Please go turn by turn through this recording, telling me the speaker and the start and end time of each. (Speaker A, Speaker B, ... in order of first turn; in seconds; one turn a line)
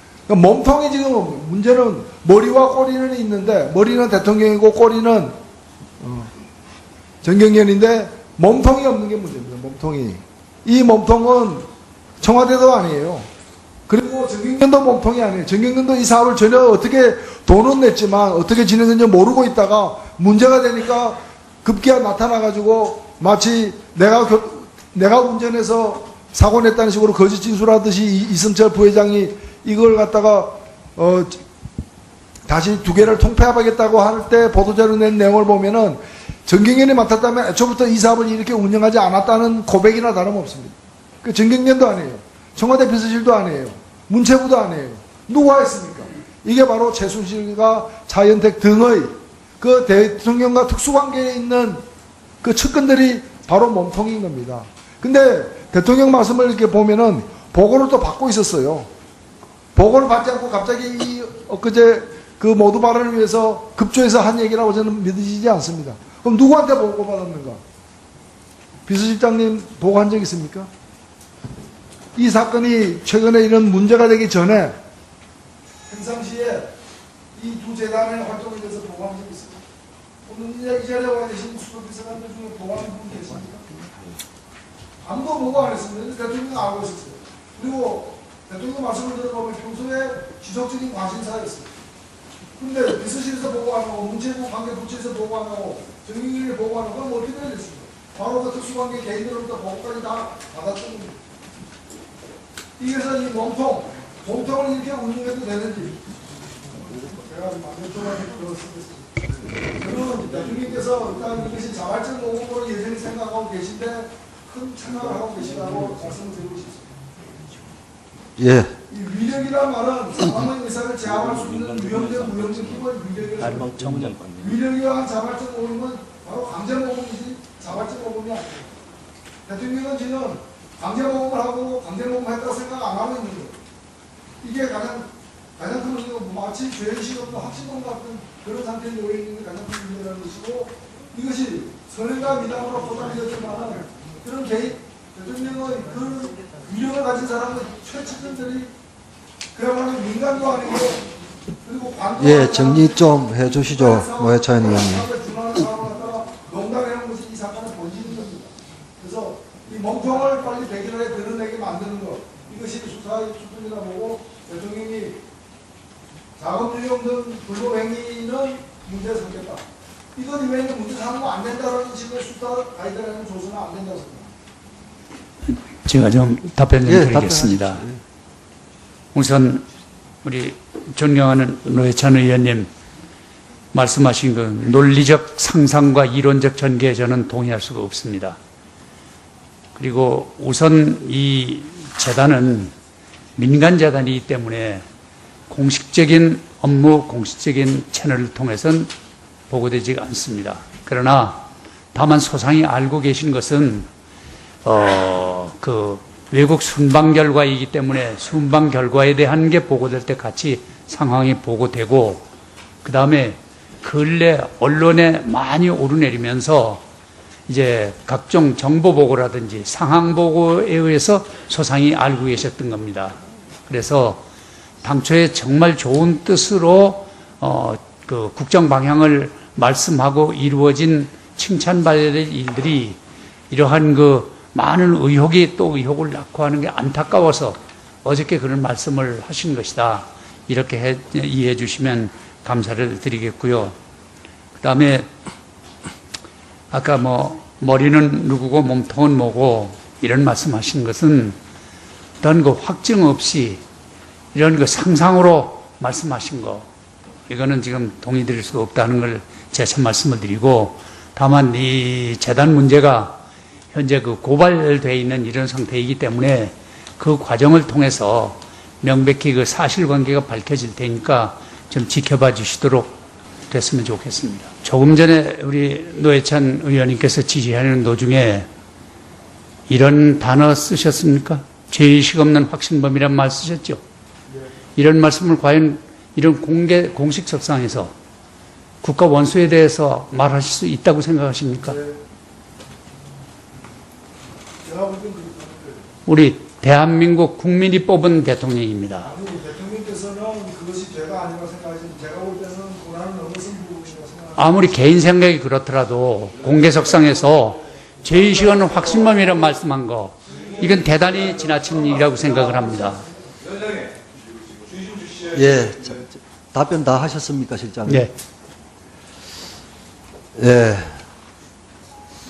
Speaker A: 0.3-5.4
Speaker A: 6.0-6.3
Speaker A: 7.2-11.7
Speaker A: 12.2-13.3
Speaker A: 13.9-31.4
Speaker A: 32.5-51.8
Speaker A: 52.4-58.9
Speaker A: 59.8-67.6
Speaker A: 68.9-70.7
Speaker A: 72.2-74.8
Speaker A: 75.9-76.7
Speaker A: 77.3-79.6
Speaker A: 80.3-83.6
Speaker A: 85.0-91.7
Speaker A: 92.6-101.2
Speaker A: 102.8-106.0
Speaker A: 107.0-116.9
Speaker B: 118.4-118.7
Speaker A: 118.9-128.8
Speaker C: 123.4-124.1
Speaker A: 129.5-133.6
Speaker A: 134.4-148.7
Speaker A: 149.5-151.0
Speaker A: 151.6-165.2
Speaker B: 152.2-155.1
Speaker A: 166.4-169.6
Speaker A: 170.2-174.3
Speaker C: 175.5-177.8
Speaker B: 176.8-177.9
Speaker C: 179.1-179.6
Speaker C: 180.2-182.7
Speaker C: 183.7-188.4
Speaker C: 189.8-192.7
Speaker C: 193.4-194.8
Speaker C: 195.5-198.9
Speaker C: 199.5-201.4
Speaker C: 201.9-203.9
Speaker C: 204.7-212.2
Speaker C: 212.8-216.8
Speaker C: 217.5-223.2
Speaker C: 223.7-224.2
Speaker C: 224.8-233.0
Speaker C: 233.5-243.8
Speaker C: 244.6-245.1
Speaker C: 246.7-251.4
Speaker C: 252.2-253.6
Speaker C: 254.3-256.7
Speaker C: 257.3-263.2
Speaker C: 263.7-273.0
Speaker C: 273.5-278.5
Speaker C: 279.7-283.8
Speaker C: 284.8-287.9
Speaker C: 288.8-291.8
Speaker A: 291.6-292.0
Speaker A: 294.6-295.9
Speaker C: 296.1-299.1
Speaker A: 299.0-304.7
Speaker C: 304.4-313.0
Speaker B: 315.2-318.1
Speaker C: 317.9-318.1
Speaker B: 320.4-320.9